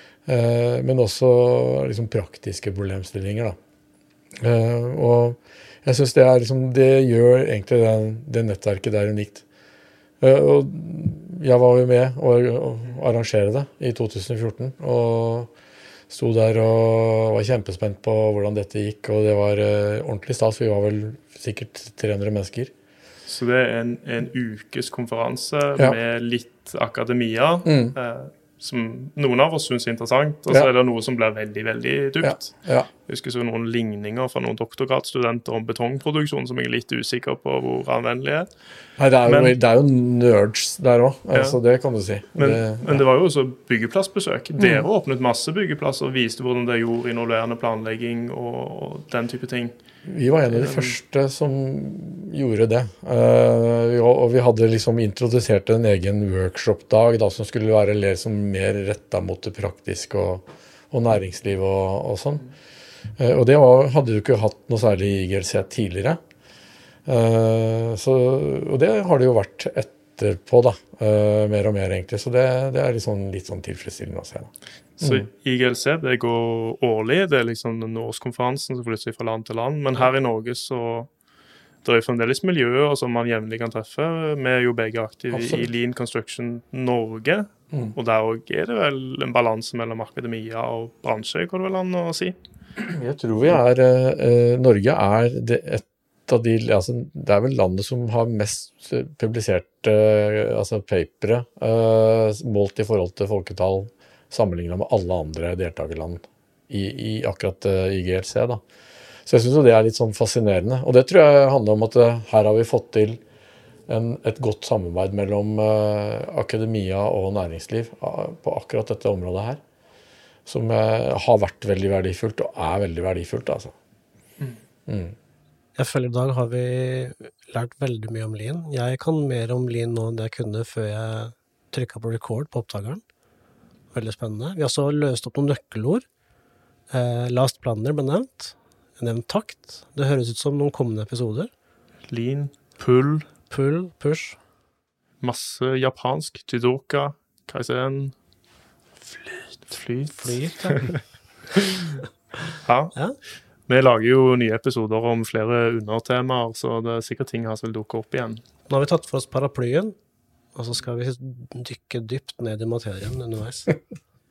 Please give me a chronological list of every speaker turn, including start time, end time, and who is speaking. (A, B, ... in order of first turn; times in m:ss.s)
0:00.3-0:03.6 A
0:04.4-0:09.4 A
0:10.2-0:15.5 A
0:16.1-0:22.7 A
0:23.3-0:32.5 B
0:27.6-0:28.0 A
0:32.2-0:32.9 A
0:33.1-0:38.5 B
0:39.0-0:43.0 A
0:39.3-0:39.5 B
0:42.4-0:49.7 B
0:44.6-0:44.9 A
0:50.1-1:02.4 A
0:50.5-0:51.0 B
1:03.2-1:06.2 A
1:07.1-1:15.3 A
1:15.0-1:21.1 B
1:21.8-1:32.4 B
1:25.3-1:25.7 A
1:32.8-1:48.6 A
1:49.3-1:53.2 A
1:53.9-1:59.6 A
2:00.5-2:03.8 A
2:04.9-2:05.2 A
2:05.8-2:13.0 C
2:13.9-2:16.0 C
2:16.9-2:21.5 C
2:22.1-2:23.3 B
2:23.5-2:24.4 C
2:25.2-2:28.2 B
2:29.7-2:31.0 B
2:30.2-2:31.0 C
2:31.6-2:32.0 B
2:32.6-2:33.0 B
2:33.7-2:38.4 B
2:38.7-2:40.0 C
2:40.6-2:43.8 C